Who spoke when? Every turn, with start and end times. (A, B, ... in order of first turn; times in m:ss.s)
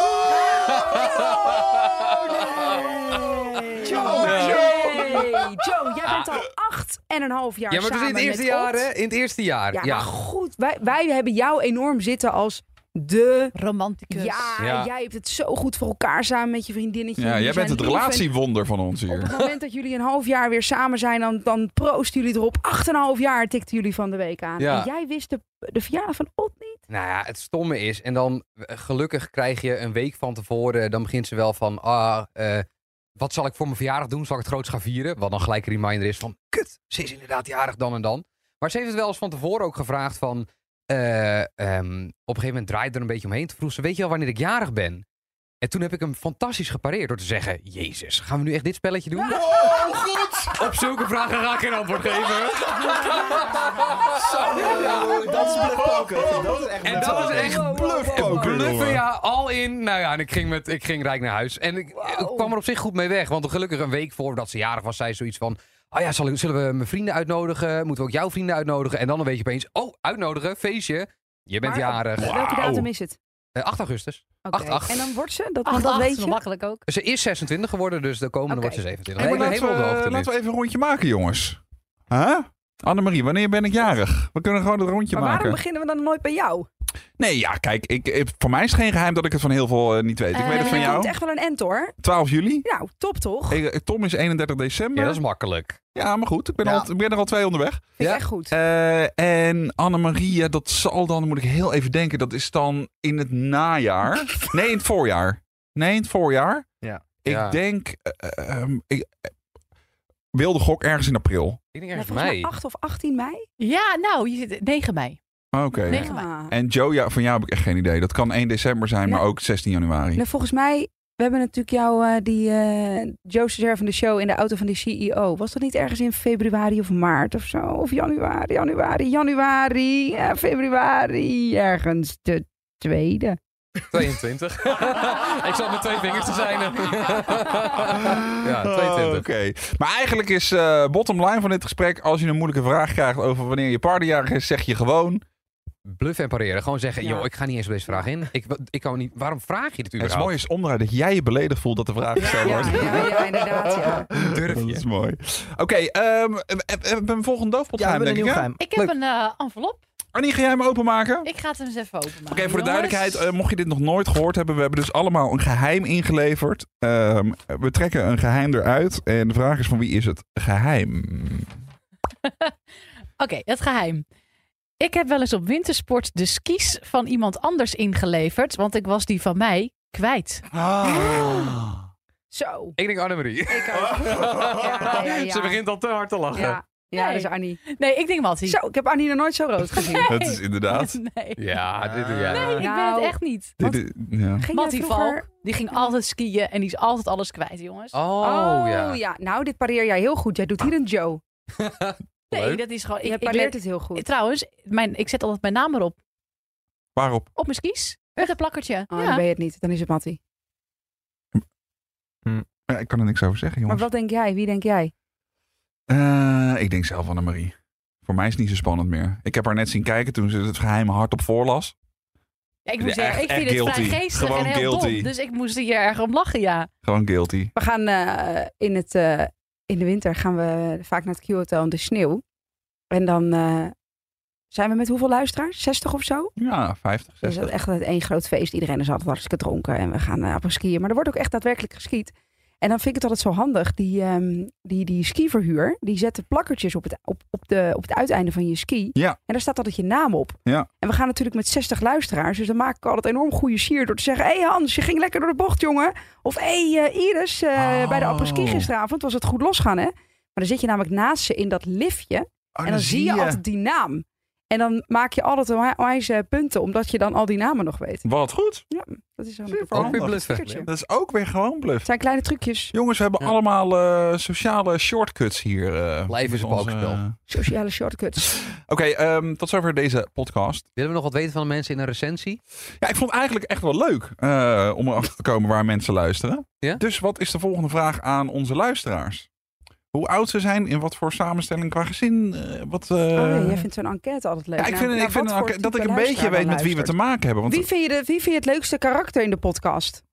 0:00.3-0:03.1 A
0:03.1-0:08.9 B
0:03.9-0:04.4 C
0:04.0-0:05.5 A
0:04.0-0:04.4 D
0:06.0-0:06.3 A
0:07.7-0:10.1 A
0:09.7-0:13.5 B
0:13.5-0:14.6 E
0:14.1-0:18.3 B
0:14.6-0:14.9 A
0:17.2-0:19.4 D
0:19.1-0:26.8 B
0:24.6-0:24.9 A
0:26.9-0:32.6 A
0:33.2-0:45.0 A
0:45.6-0:49.9 A
0:49.2-0:50.7 D
0:50.5-0:55.9 A
0:54.5-0:55.1 D
0:54.5-0:57.7 C
0:56.8-1:12.4 A
0:57.0-0:58.5 B
0:57.2-0:59.0 D
1:02.0-1:02.5 B
1:11.6-1:13.2 B
1:12.2-1:12.9 D
1:13.5-1:15.1 A
1:14.4-1:16.4 B
1:15.6-1:16.8 E
1:16.9-1:20.3 A
1:18.5-1:18.8 B
1:19.2-1:25.6 D
1:25.1-1:26.7 B
1:27.2-1:31.1 D
1:30.3-1:31.1 E
1:30.4-1:31.9 B
1:32.0-1:32.7 D
1:32.6-1:33.6 B
1:33.5-1:35.2 D
1:35.0-1:35.8 A
1:35.9-1:38.0 D
1:36.6-1:36.9 C
1:38.0-1:38.5 B
1:38.5-1:46.6 D
1:47.2-1:49.3 D
1:47.3-1:47.6 A
1:50.3-1:51.6 D
1:51.7-1:52.5 A
1:51.9-1:53.4 B
1:53.6-1:55.2 E
1:55.5-2:00.2 D
1:55.7-1:56.5 B
1:55.8-1:56.3 E
2:00.2-2:13.4 B
2:13.9-2:19.2 A
2:18.1-2:25.2 D
2:25.8-2:30.4 A
2:27.0-2:27.3 B
2:30.0-2:38.5 D
2:32.2-2:34.1 B
2:34.2-2:34.8 A
2:37.8-2:38.9 C
2:38.6-2:39.8 E
2:40.1-2:41.3 D
2:41.2-2:43.3 E
2:42.3-2:51.5 D
2:52.3-2:52.5 E
2:53.2-2:54.0 E
2:54.8-3:00.4 E
3:00.5-3:01.8 D
3:00.8-3:01.5 B
3:02.3-3:02.8 B
3:02.8-3:06.6 A
3:03.5-3:05.6 B
3:06.3-3:07.6 B
3:06.9-3:08.6 E
3:08.4-3:10.1 B
3:09.7-3:11.6 E
3:10.0-3:11.0 D
3:11.4-3:12.6 A
3:12.0-3:12.2 D
3:12.2-3:13.3 E
3:12.5-3:13.8 B
3:13.6-3:14.5 D
3:14.4-3:15.3 B
3:14.5-3:18.0 E
3:17.9-3:19.0 A
3:18.2-3:21.2 B
3:21.6-3:22.6 A
3:22.3-3:26.0 E
3:23.0-3:24.0 B
3:27.0-3:27.3 D
3:27.4-3:29.2 E
3:28.9-3:30.2 B
3:32.7-3:33.9 D
3:33.7-3:34.9 B
3:35.9-3:41.7 D
3:42.6-3:46.7 E
3:42.8-3:45.1 D
3:46.8-3:47.5 D
3:47.5-3:52.2 B
3:52.9-3:53.7 B
3:54.5-3:56.3 B
3:56.4-3:57.5 D
3:57.2-4:28.0 B
4:17.6-4:18.7 D
4:22.5-4:23.4 D
4:28.0-4:28.6 D
4:28.7-4:30.7 B
4:29.6-4:31.9 D
4:29.7-4:30.6 A
4:31.8-4:32.7 B
4:32.7-4:37.5 D
4:36.1-4:37.0 A
4:37.3-4:38.3 B
4:38.7-4:40.6 D
4:40.8-4:42.4 A
4:42.8-4:49.3 D
4:49.9-4:53.6 D
4:53.1-4:56.9 B
4:54.6-4:57.7 D
4:57.5-5:00.0 B